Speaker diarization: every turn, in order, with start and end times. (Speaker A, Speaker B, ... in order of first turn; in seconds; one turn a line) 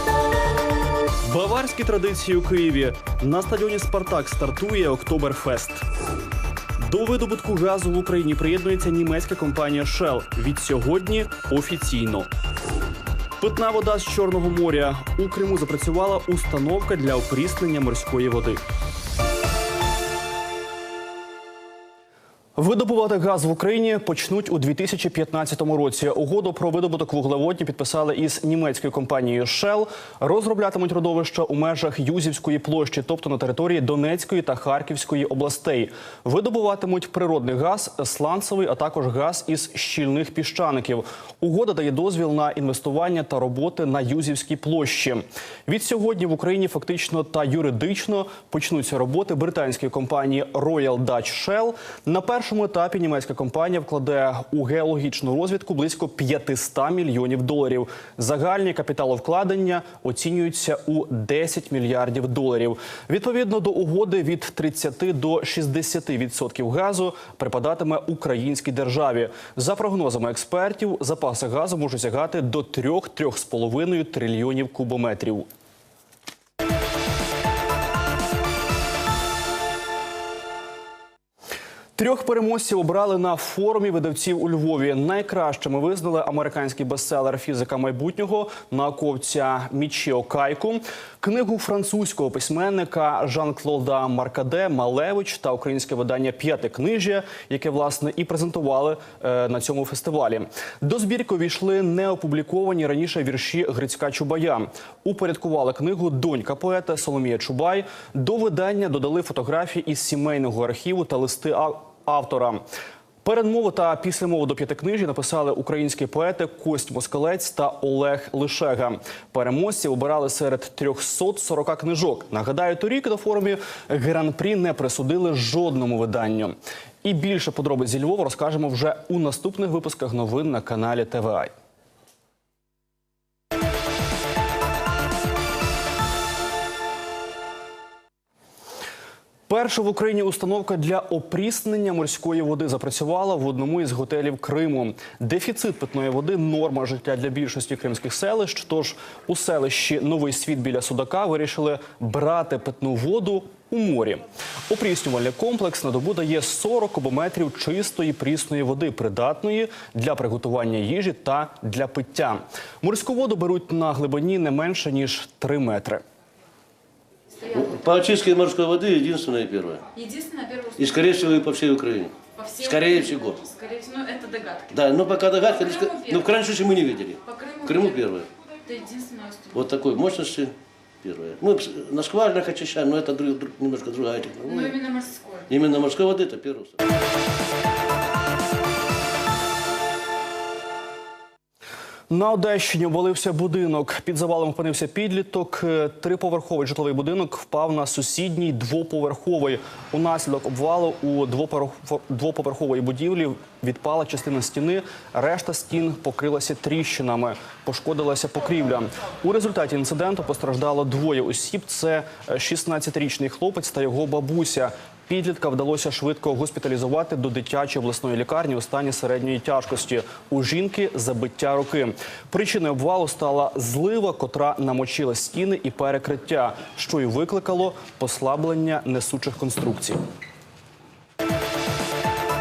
Speaker A: 1.2-5.8
Speaker A: 6.8-12.3
Speaker A: 13.4-18.6
Speaker A: 22.6-75.5
Speaker A: 82.0-112.6
Speaker A: 113.2-131.5
Speaker A: 139.5-166.0
Speaker B: 167.4-169.9
Speaker C: 169.9-170.8
Speaker B: 170.8-173.5
Speaker C: 173.4-174.7
Speaker B: 174.7-178.3
Speaker C: 177.3-177.6
Speaker C: 178.6-179.5
Speaker B: 179.5-184.8
Speaker C: 184.7-185.4
Speaker B: 185.5-186.8
Speaker A: 192.1-230.0